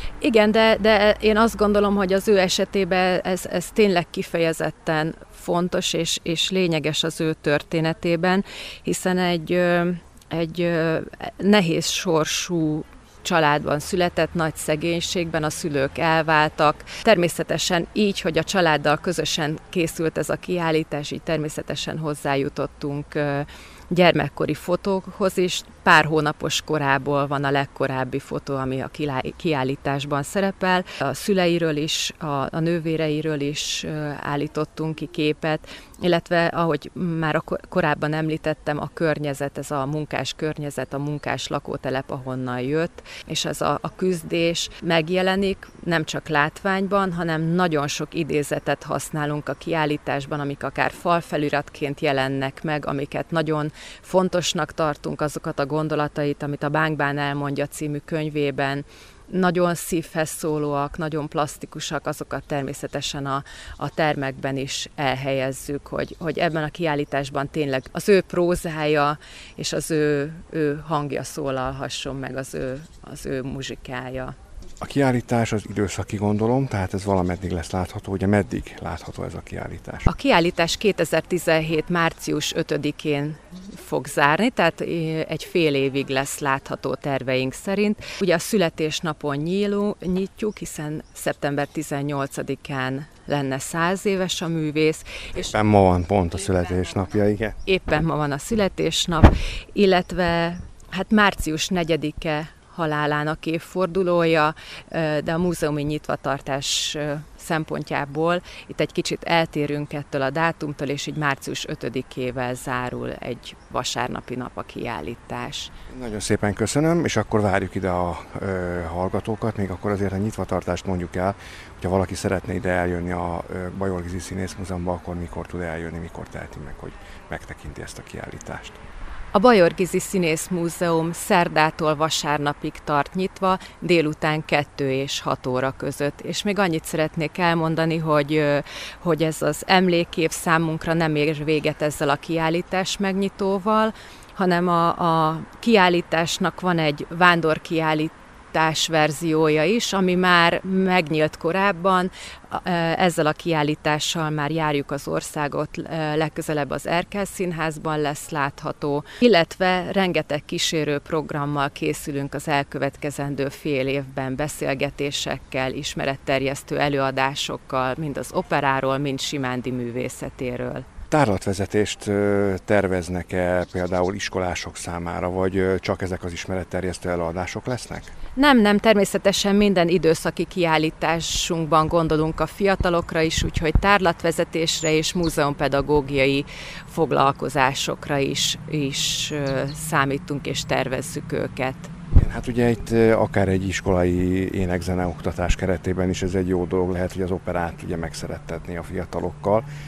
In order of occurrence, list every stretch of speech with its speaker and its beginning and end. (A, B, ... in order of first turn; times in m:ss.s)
0:00.2-1:14.3 A
1:14.8-1:20.0 B
1:20.1-1:35.5 A
1:35.4-1:37.6 B
1:37.7-1:55.7 A
1:55.9-2:08.8 B
2:09.3-2:50.8 A
2:51.1-2:58.1 B
2:58.4-3:11.9 A
3:12.1-3:19.6 B